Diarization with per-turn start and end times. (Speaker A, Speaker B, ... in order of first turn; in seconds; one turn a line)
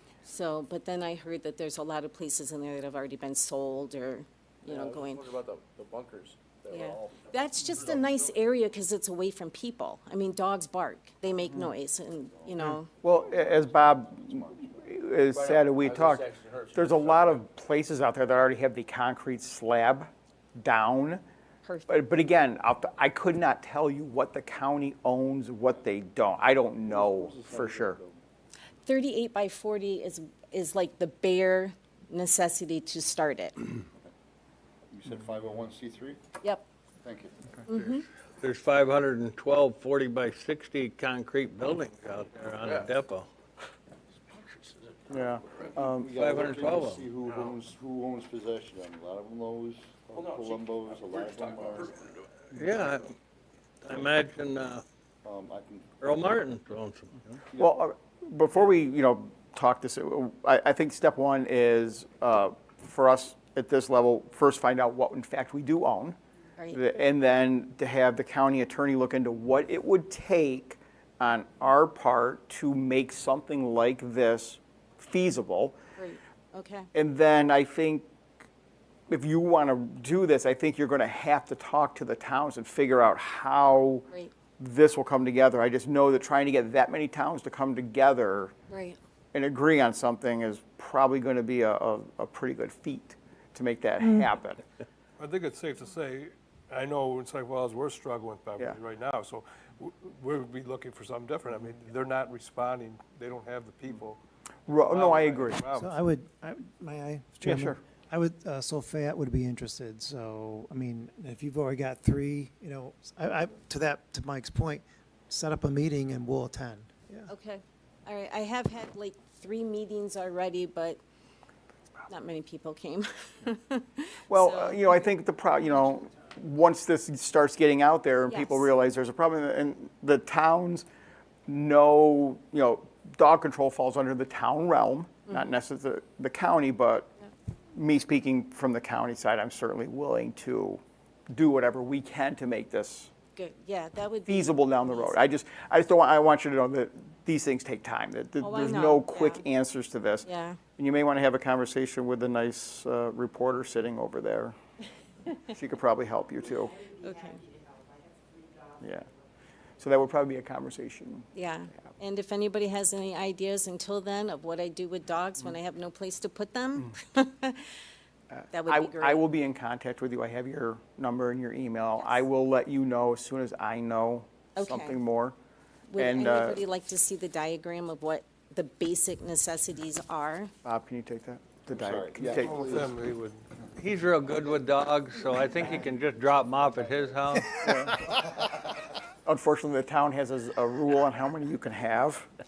Speaker A: 0.2-5.3
Speaker B: 4.7-7.2
Speaker A: 6.7-12.9
Speaker C: 12.4-14.8
Speaker D: 12.6-21.2
Speaker B: 15.3-17.4
Speaker A: 21.6-21.9
Speaker D: 21.9-28.0
Speaker C: 26.9-28.2
Speaker A: 28.8-33.6
Speaker C: 34.9-36.2
Speaker C: 37.0-37.4
Speaker A: 37.7-38.0
Speaker E: 38.4-43.3
Speaker B: 44.3-45.0
Speaker D: 45.1-46.1
Speaker C: 45.8-51.9
Speaker E: 46.1-47.1
Speaker B: 50.1-52.2
Speaker E: 52.5-53.1
Speaker E: 53.8-54.8
Speaker C: 55.2-55.9
Speaker E: 56.0-57.2
Speaker D: 57.6-66.2
Speaker D: 66.7-75.8
Speaker A: 76.0-76.9
Speaker D: 76.9-78.0
Speaker D: 79.1-84.0
Speaker D: 84.6-88.5
Speaker A: 88.7-89.0
Speaker D: 89.3-94.6
Speaker F: 95.2-104.2
Speaker D: 104.7-105.6
Speaker F: 104.8-105.9
Speaker G: 105.6-117.3
Speaker D: 107.4-107.8
Speaker A: 117.3-121.0
Speaker A: 122.1-125.0
Speaker D: 124.3-130.8
Speaker A: 128.3-128.7
Speaker D: 131.5-137.1
Speaker D: 137.7-143.1
Speaker A: 143.3-145.2
Speaker D: 144.3-150.2
Speaker A: 148.4-149.4
Speaker A: 150.2-150.6
Speaker D: 150.8-154.6
Speaker D: 155.5-156.9
Speaker A: 157.0-157.4
Speaker D: 158.8-159.1
Speaker D: 159.8-161.3
Speaker A: 161.3-167.7
Speaker D: 168.3-175.4
Speaker A: 168.5-169.2
Speaker A: 172.0-172.2
Speaker A: 174.6-174.9
Speaker A: 175.9-180.5
Speaker D: 175.9-176.6
Speaker D: 180.6-182.6
Speaker C: 181.7-183.0
Speaker F: 182.4-183.4
Speaker E: 183.8-187.9
Speaker D: 189.2-192.3